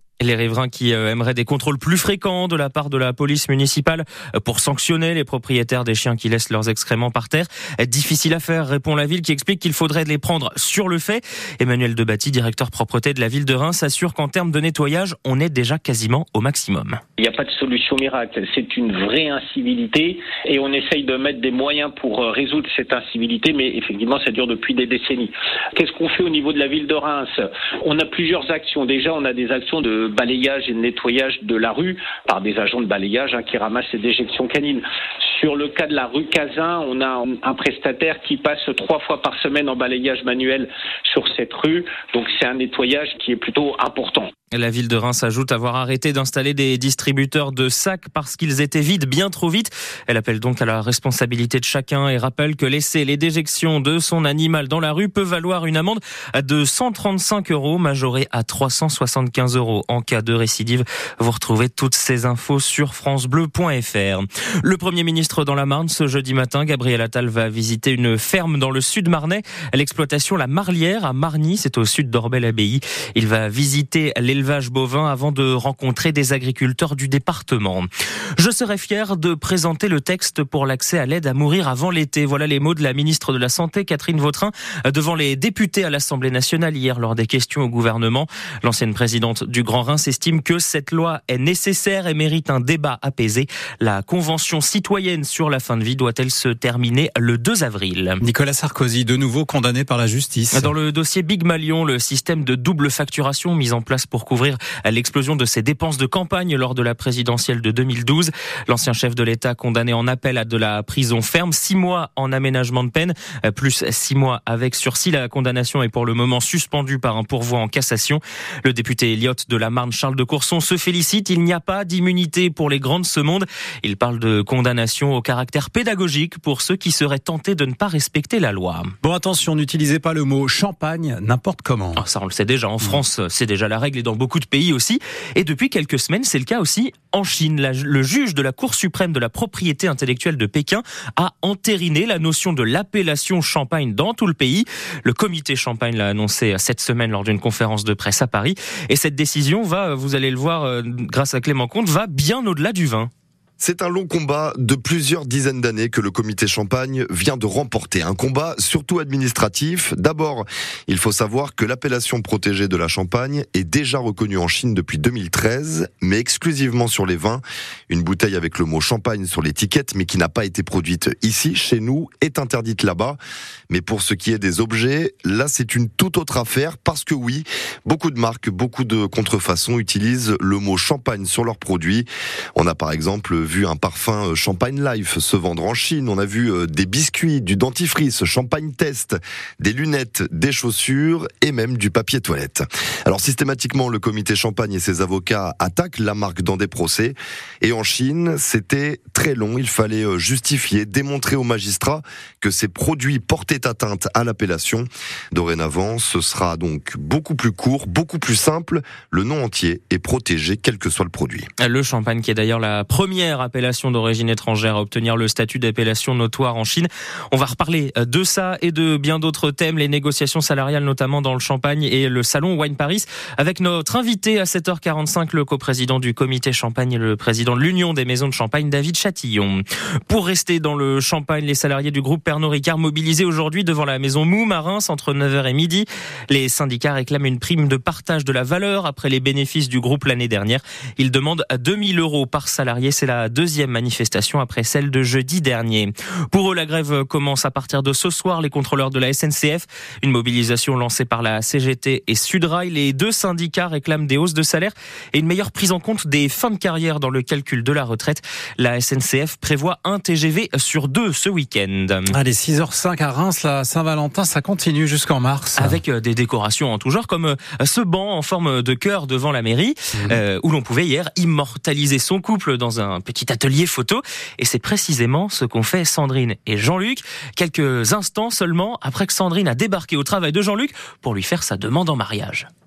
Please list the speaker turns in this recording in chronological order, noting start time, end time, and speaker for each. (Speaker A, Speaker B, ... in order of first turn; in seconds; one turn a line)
Speaker A: 0.2-17.0
Speaker B: 17.2-44.3
Speaker A: 44.5-98.2
Speaker C: 98.2-100.7
Speaker A: 100.5-128.9
Speaker C: 129.0-132.0
Speaker A: 131.9-153.1
Speaker D: 153.6-173.2
Speaker D: 173.7-211.5
Speaker A: 211.6-262.1
Speaker C: 262.1-265.8
Speaker A: 265.6-282.5